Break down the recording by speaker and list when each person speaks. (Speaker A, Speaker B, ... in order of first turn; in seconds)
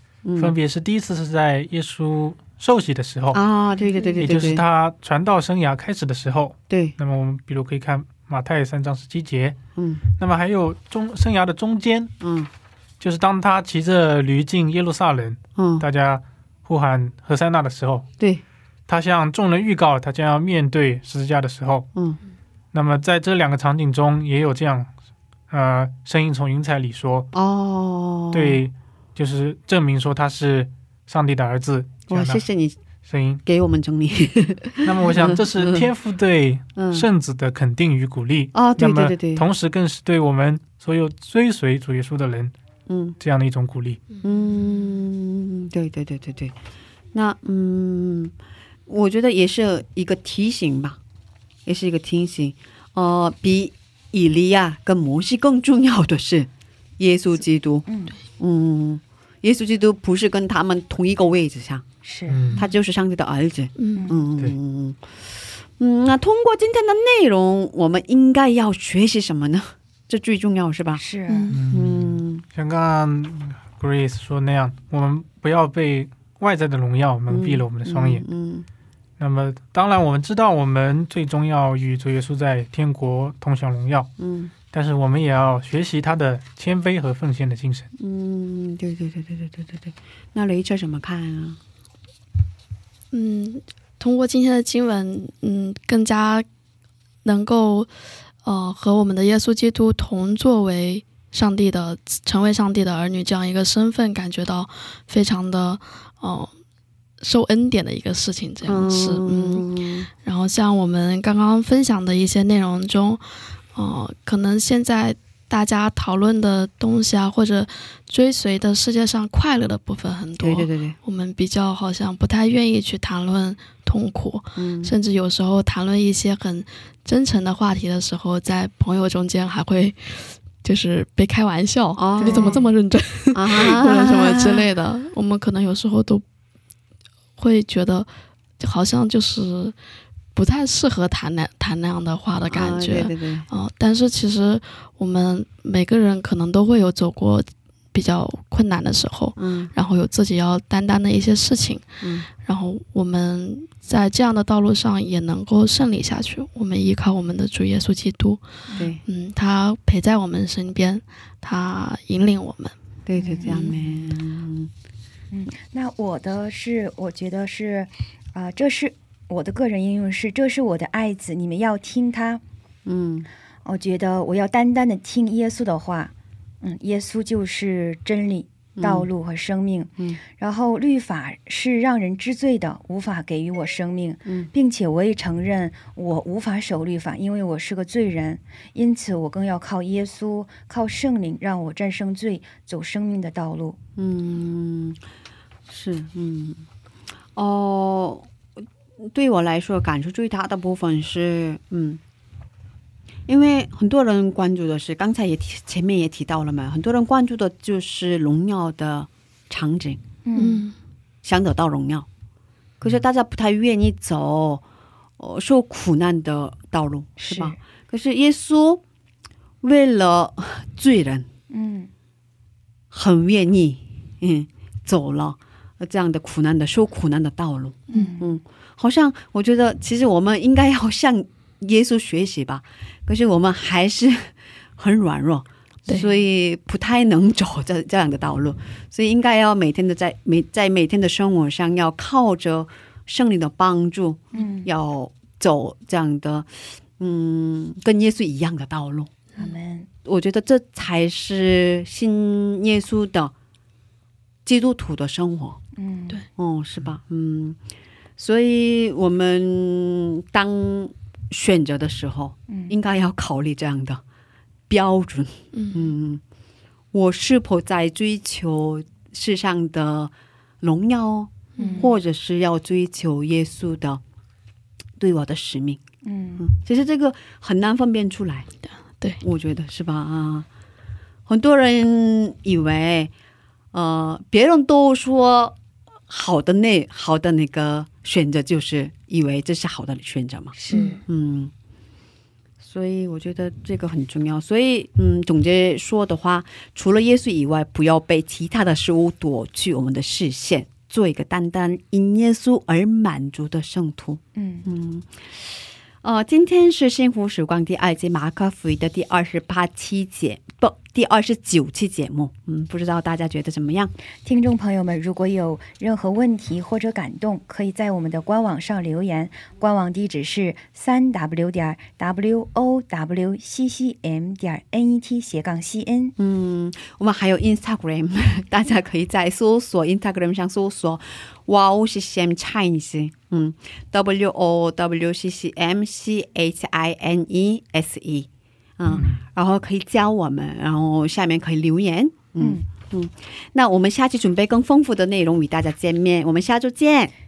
Speaker A: 0.2-0.5, 3.3-4.6, 6.7-6.9, 9.8-10.0, 12.2-12.5, 15.6-15.8, 27.3-28.6, 32.1-32.8, 33.4-35.7, 36.8-37.0, 38.5-39.5, 42.9-43.2, 44.2-46.5, 47.1-48.3, 48.9-51.0, 51.6-61.8, 62.6-71.0, 71.7-72.4, 77.3-78.7, 84.2-84.5, 88.0-91.6, 108.6-110.1, 120.4-121.0, 124.5-124.9, 132.0-132.7, 133.3-134.6, 142.5-143.5, 149.4-149.7, 152.0-152.2, 163.0-164.7, 172.8-173.3, 178.8-179.1, 194.0-195.0, 195.7-196.6, 197.3-198.3, 199.0-202.0, 203.3-210.0, 211.2-212.1, 212.8-214.6, 215.2-218.8, 219.6-221.3, 222.9-249.1, 250.0-253.3, 254.4-255.6, 256.4-257.6, 258.2-264.0, 264.7-266.2, 266.9-270.1, 270.6-274.0, 275.0-275.8, 276.4-278.5, 279.2-280.4, 281.3-283.1, 283.7-285.6, 286.1-291.5, 292.6-305.4, 306.0-313.9, 326.2-338.3, 338.8-347.1
Speaker B: 0.4-3.4, 4.1-9.6, 10.2-12.1, 13.0-18.1, 18.9-21.9, 22.7-24.9, 25.5-27.3, 28.3-32.4, 33.1-33.4, 34.8-42.5, 43.2-44.0, 62.3-62.7, 71.5-78.2, 79.2-84.1, 84.7-87.9
Speaker C: 57.9-58.1, 62.0-62.5, 64.0-64.2, 70.9-71.5, 132.2-132.6, 163.1-163.8, 165.3-172.4, 173.6-176.1, 176.6-193.8, 210.2-210.7, 217.2-217.6, 221.5-221.9, 227.9-228.3, 244.3-244.7, 249.3-249.9, 255.8-256.2, 262.5-262.8, 271.6-271.9, 276.0-276.4, 290.5-291.0, 304.3-304.7, 314.2-326.1, 342.4-342.7
Speaker D: 63.8-64.1, 71.3-71.6, 93.1-96.4, 97.2-97.9, 98.4-106.5, 107.2-136.2, 137.4-139.8, 140.3-162.8, 163.4-164.0, 210.4-210.7, 265.5-265.9, 271.6-271.9, 278.6-279.2